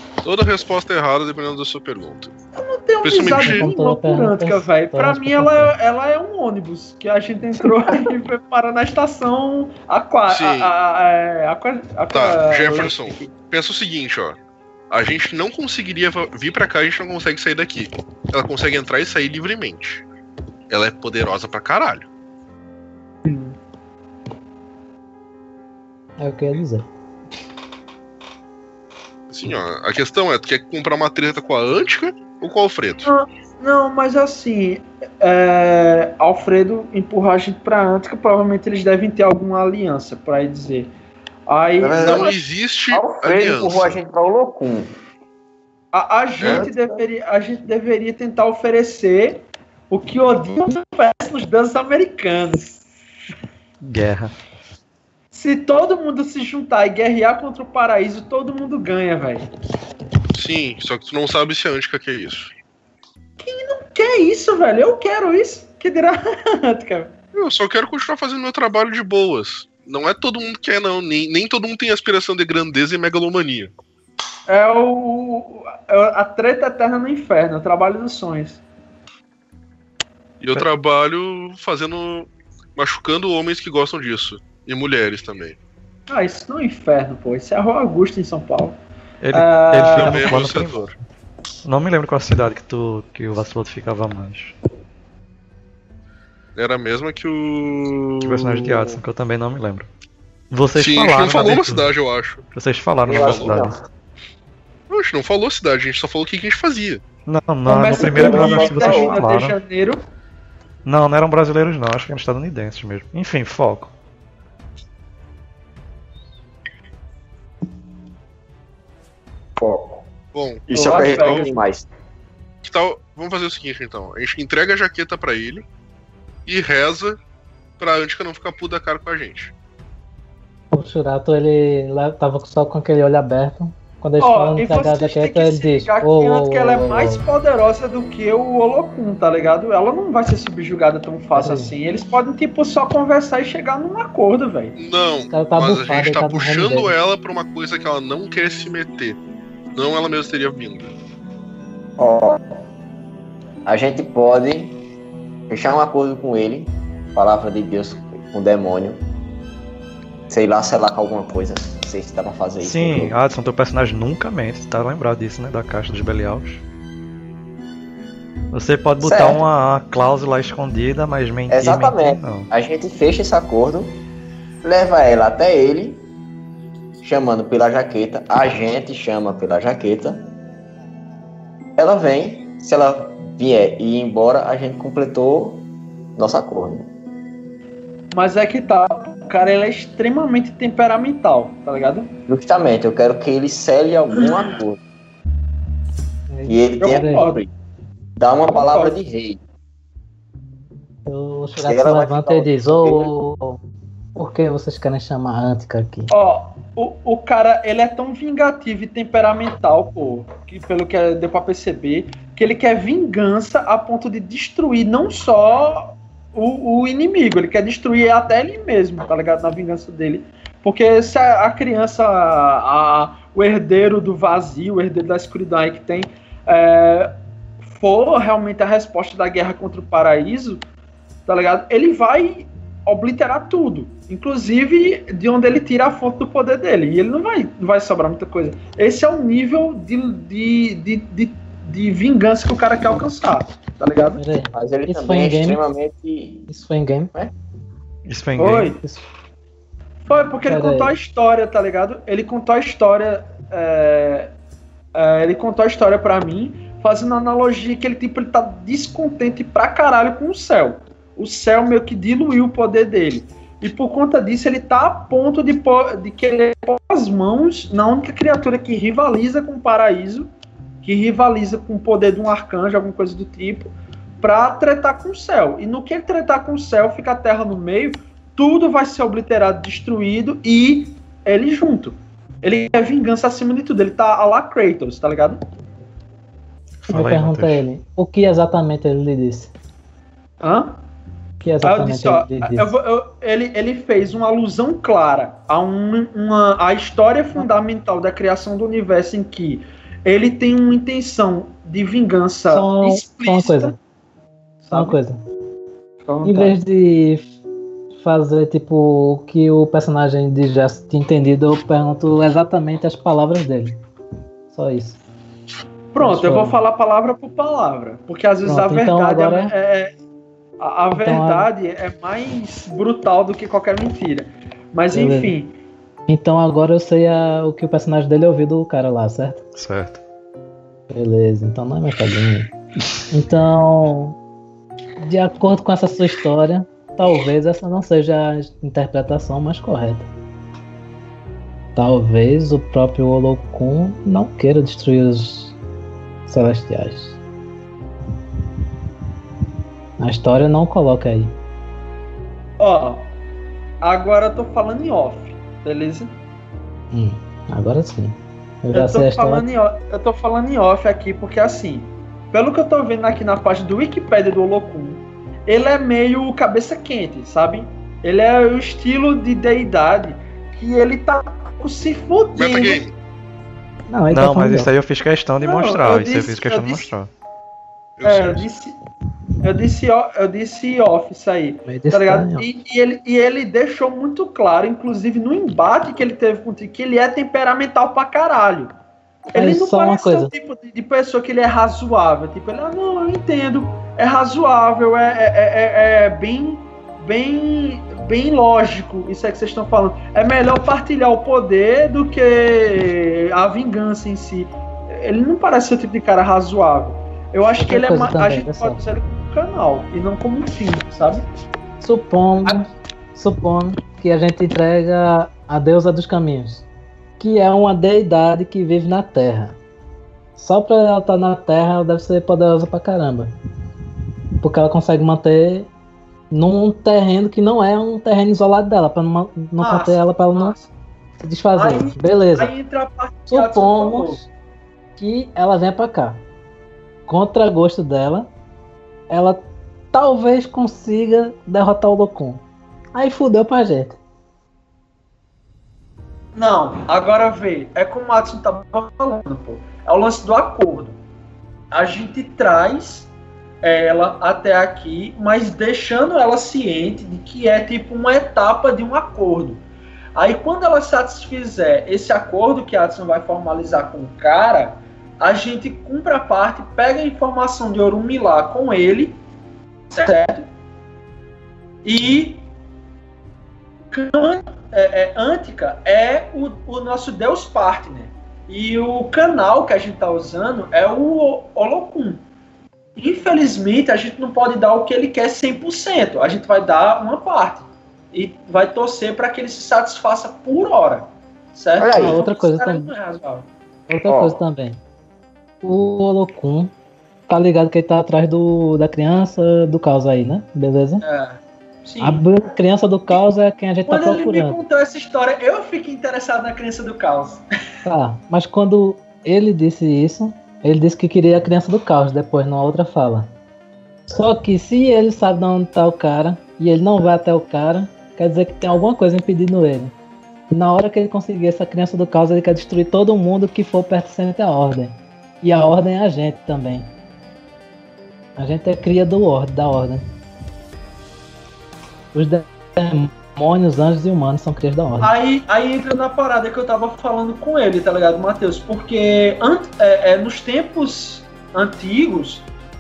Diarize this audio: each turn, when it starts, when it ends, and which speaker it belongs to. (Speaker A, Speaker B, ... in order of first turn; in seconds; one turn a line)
Speaker A: 0.2-2.3
Speaker B: 2.5-13.3
Speaker A: 3.0-3.7
Speaker C: 3.2-5.7
Speaker A: 10.3-10.7
Speaker A: 12.1-14.4
Speaker A: 14.9-20.0
Speaker A: 20.7-22.1
Speaker B: 23.2-23.6
Speaker C: 26.2-26.9
Speaker A: 29.3-33.1
Speaker B: 33.0-40.9
Speaker B: 41.5-42.4
Speaker D: 41.8-42.4
Speaker A: 42.0-44.0
Speaker D: 42.9-44.9
Speaker B: 45.9-52.8
Speaker D: 46.4-47.0
Speaker A: 46.4-46.7
Speaker E: 53.8-54.3
Speaker B: 55.3-59.5
Speaker A: 60.3-62.5
Speaker B: 63.4-67.1
Speaker A: 67.3-73.7
Speaker B: 74.5-78.6
Speaker A: 80.4-85.6
Speaker B: 86.1-88.8
Speaker E: 89.2-90.9
Speaker B: 89.3-90.5
Speaker A: 89.9-91.0
Speaker E: 91.6-94.5
Speaker A: 96.5-99.0
Speaker E: 98.2-99.9
Speaker E: 100.5-101.9
Speaker A: 100.8-102.4
Speaker E: 102.5-103.7
Speaker D: 103.1-103.8
Speaker A: 103.1-103.5
Speaker A: 104.9-107.0
Speaker E: 107.2-109.6
Speaker B: 107.7-110.0
Speaker D: 108.0-109.2
Speaker E: 110.8-113.9
Speaker D: 119.6-120.0
Speaker A: 120.3-121.5
Speaker D: 120.7-121.9
Speaker B: 120.7-121.6
Speaker A: 122.6-125.6
Speaker A: 126.5-127.2
Speaker A: 127.8-129.5
Speaker C: 130.7-137.2
Speaker B: 134.2-144.8
Speaker C: 141.3-141.7
Speaker A: 144.8-149.2
Speaker C: 145.3-146.9
Speaker A: 149.7-150.9
Speaker D: 152.0-152.4
Speaker D: 153.6-154.8
Speaker D: 155.5-159.0
Speaker D: 160.3-163.2
Speaker E: 162.6-166.6
Speaker E: 168.5-172.5
Speaker D: 169.0-169.4
Speaker D: 171.5-174.0
Speaker D: 174.6-176.0
Speaker D: 177.0-180.3
Speaker D: 181.8-185.6
Speaker D: 186.2-186.9
Speaker B: 188.1-192.1
Speaker D: 192.3-194.8
Speaker C: 196.3-197.3
Speaker D: 196.5-197.5
Speaker B: 196.8-197.4
Speaker D: 198.2-199.4
Speaker B: 198.5-199.0
Speaker C: 201.1-203.6
Speaker D: 201.6-203.1
Speaker C: 204.1-206.1
Speaker B: 206.1-230.6
Speaker B: 231.2-244.2
Speaker C: 244.2-245.6
Speaker D: 244.5-246.5
Speaker C: 246.5-247.1
Speaker E: 248.1-248.8
Speaker B: 248.4-248.8
Speaker B: 250.0-254.3
Speaker C: 250.4-250.9
Speaker B: 254.9-270.3
Speaker B: 270.8-285.4
Speaker E: 286.8-287.6
Speaker C: 286.9-289.5
Speaker B: 290.4-290.8
Speaker C: 291.4-292.7
Speaker B: 291.6-303.7
Speaker C: 302.5-303.8
Speaker C: 304.6-305.2
Speaker B: 304.7-305.0
Speaker B: 306.0-306.6
Speaker C: 306.2-307.3
Speaker C: 307.9-313.8
Speaker C: 314.5-315.0
Speaker B: 315.9-319.9
Speaker C: 316.0-316.6
Speaker C: 318.4-319.5
Speaker B: 320.6-325.6
Speaker C: 320.9-321.5
Speaker C: 324.9-325.3
Speaker C: 326.1-329.4
Speaker E: 329.6-330.0
Speaker C: 330.9-332.5
Speaker C: 333.1-334.1
Speaker C: 335.0-340.1
Speaker C: 341.8-345.6
Speaker C: 346.3-347.2
Speaker C: 350.0-351.3
Speaker B: 352.6-353.1
Speaker B: 353.8-356.1
Speaker C: 356.9-359.4
Speaker B: 358.7-372.8
Speaker A: 372.4-373.0
Speaker C: 373.9-374.7
Speaker E: 374.1-377.1
Speaker B: 375.4-376.9
Speaker A: 378.0-378.5
Speaker B: 378.0-378.7
Speaker B: 379.4-388.7
Speaker C: 381.6-382.5
Speaker C: 389.3-390.3
Speaker B: 389.3-411.2
Speaker C: 407.6-408.8
Speaker C: 411.8-416.6
Speaker C: 417.2-419.6
Speaker C: 420.4-423.3
Speaker C: 424.4-425.7
Speaker C: 426.3-430.6
Speaker B: 429.6-430.7
Speaker C: 431.2-432.5
Speaker B: 431.5-434.2
Speaker C: 433.3-434.3
Speaker C: 435.0-436.2
Speaker C: 437.1-438.3
Speaker C: 439.1-442.4
Speaker C: 442.9-444.0
Speaker B: 446.3-451.0
Speaker B: 451.7-453.1
Speaker B: 453.6-459.6
Speaker B: 460.1-469.2
Speaker B: 469.9-470.5
Speaker B: 471.8-472.5
Speaker B: 473.9-482.2
Speaker B: 483.0-493.5
Speaker D: 491.8-492.2
Speaker C: 491.9-492.9
Speaker C: 493.9-494.8
Speaker D: 494.0-494.4
Speaker C: 495.6-496.7
Speaker C: 497.3-501.0
Speaker B: 501.0-502.2
Speaker C: 502.0-504.6
Speaker B: 503.9-507.4
Speaker C: 507.8-513.3
Speaker C: 514.1-519.9
Speaker C: 520.5-526.9
Speaker C: 528.4-530.0
Speaker C: 532.1-535.1
Speaker B: 535.0-542.5